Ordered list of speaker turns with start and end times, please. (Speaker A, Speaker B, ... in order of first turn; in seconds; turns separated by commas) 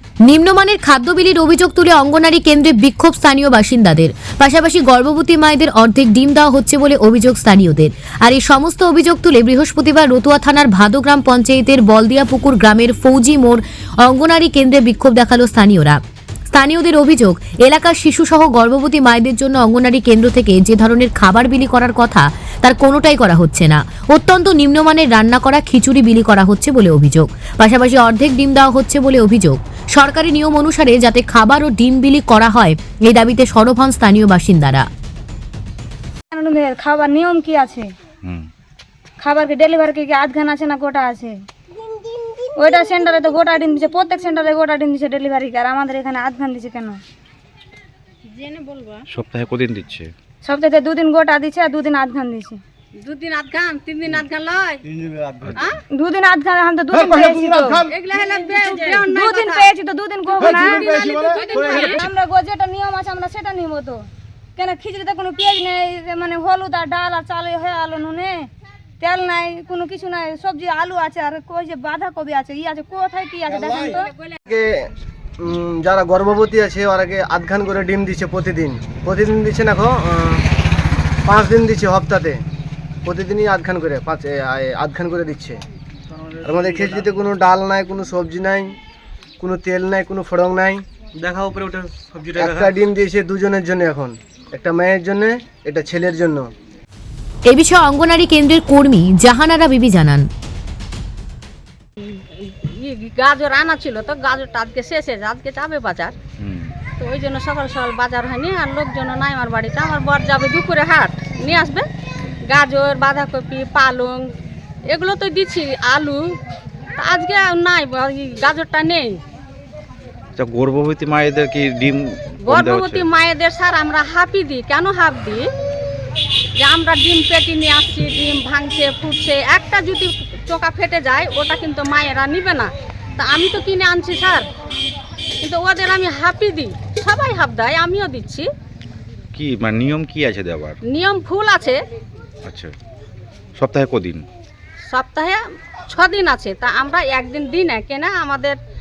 Speaker A: 0.2-16.0, Speaker A: 16.5-34.9, Speaker B: 36.3-37.9, Speaker B: 39.2-41.4, Speaker B: 42.6-47.0, Speaker C: 49.1-50.1, Speaker B: 50.4-52.6, Speaker D: 53.0-54.8, Speaker E: 54.9-55.4, Speaker C: 55.4-55.8, Speaker B: 55.9-57.8, Speaker E: 56.9-57.9, Speaker D: 57.9-59.6, Speaker B: 58.9-68.5, Speaker D: 60.3-62.0, Speaker E: 60.5-62.0, Speaker B: 69.0-74.1, Speaker F: 74.5-74.9, Speaker F: 75.4-80.5, Speaker F: 81.2-82.4, Speaker F: 83.0-85.6, Speaker E: 86.4-87.2, Speaker F: 86.4-88.7, Speaker F: 89.4-90.8, Speaker E: 91.2-92.7, Speaker F: 92.3-96.5, Speaker A: 97.5-100.3, Speaker D: 102.0-106.1, Speaker C: 106.4-106.7, Speaker D: 107.0-111.8, Speaker D: 112.5-114.3, Speaker D: 114.9-116.2, Speaker D: 117.0-119.2, Speaker C: 120.3-123.1, Speaker D: 122.4-125.5, Speaker D: 126.6-134.4, Speaker D: 135.4-138.5, Speaker C: 139.3-140.8, Speaker D: 140.9-141.8, Speaker C: 142.4-142.7, Speaker C: 143.6-144.2, Speaker D: 144.9-148.6